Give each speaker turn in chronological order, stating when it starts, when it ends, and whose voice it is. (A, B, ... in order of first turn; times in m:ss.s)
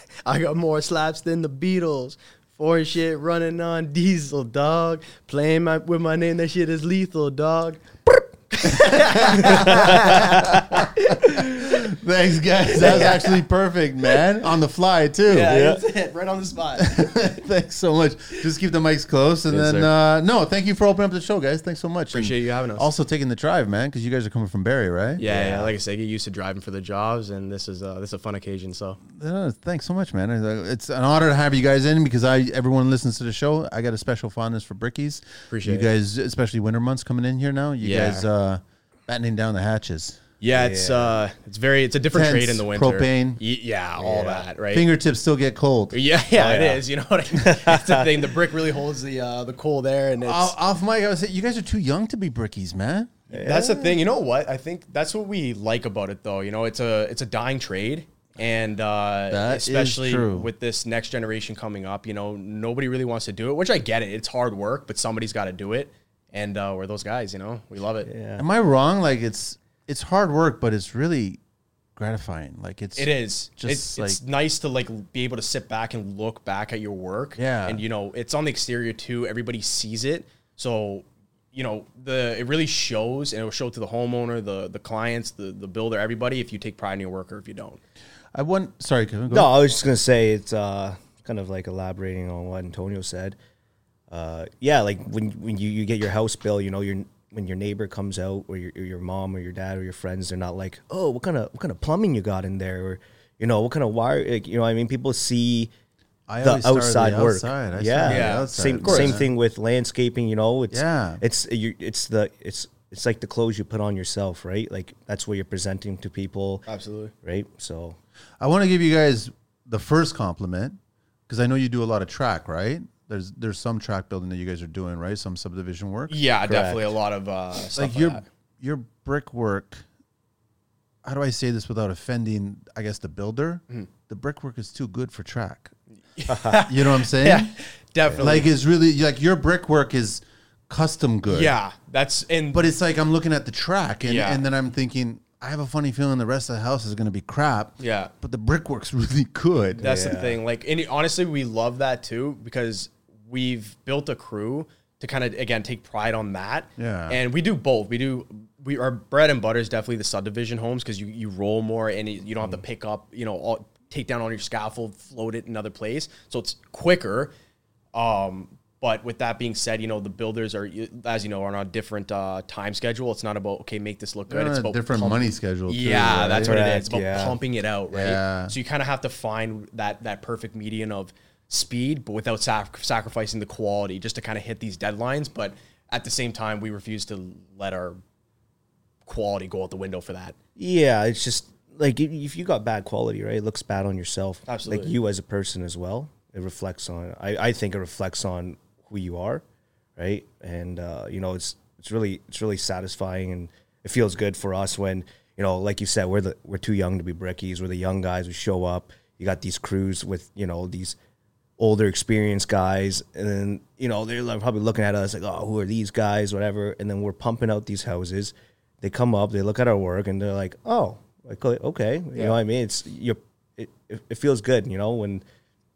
0:00.2-0:11.8 A
0:09.1-0:15.6 B
0:09.5-0:10.0 C
0:12.8-0:13.4 A
0:15.3-0:17.3 A
0:15.5-0:15.8 C
0:16.8-0:25.2 B
0:19.5-0:19.8 A
0:19.6-0:19.9 C
0:22.1-0:22.9 A
0:25.2-0:29.0 A
0:25.2-0:25.7 C
0:29.1-0:40.2 B
0:35.5-0:35.9 A
0:37.8-0:38.3 A
0:40.4-0:44.9 A
0:40.5-0:41.2 C
0:42.1-0:43.4 B
0:44.0-0:44.4 C
0:44.7-0:46.0 B
0:45.9-0:50.6 A
0:46.4-0:46.8 C
0:47.5-0:48.1 C
0:50.2-0:53.2 B
0:53.3-0:54.0 C
0:53.3-1:08.1 A
0:59.3-1:00.5 B
1:08.1-1:08.5 C
1:08.4-1:11.4 B
1:12.0-1:14.2 B
1:13.0-1:27.8 A
1:17.4-1:17.8 B
1:28.3-1:29.6 B
1:29.3-1:33.4 C
1:34.1-1:45.7 C
1:46.3-1:49.3 B
1:46.4-1:56.6 C
1:48.1-1:49.2 A
1:50.7-1:51.2 B
1:56.7-1:57.1 A
1:57.2-1:58.0 C
1:58.4-2:00.8 B
2:01.3-2:06.2 B
2:06.1-2:08.2 A
2:06.5-2:06.8 C
2:07.8-2:09.8 B
2:11.0-2:15.7 B
2:16.2-2:18.5 A
2:16.7-2:17.5 B
2:18.2-2:21.5 B
2:21.3-2:22.7 A
2:22.5-2:29.8 B
2:24.0-2:24.4 A
2:27.8-2:28.1 A
2:29.8-2:30.4 C
2:29.8-2:47.3 A
2:36.8-2:37.2 B
2:47.9-3:08.0 A
2:54.3-2:56.6 B
2:56.4-2:57.4 C
2:57.9-2:58.6 B
3:09.0-3:10.4 A
3:10.6-3:19.4 C
3:14.5-3:15.0 A
3:20.0-3:31.0 C
3:31.6-3:45.2 C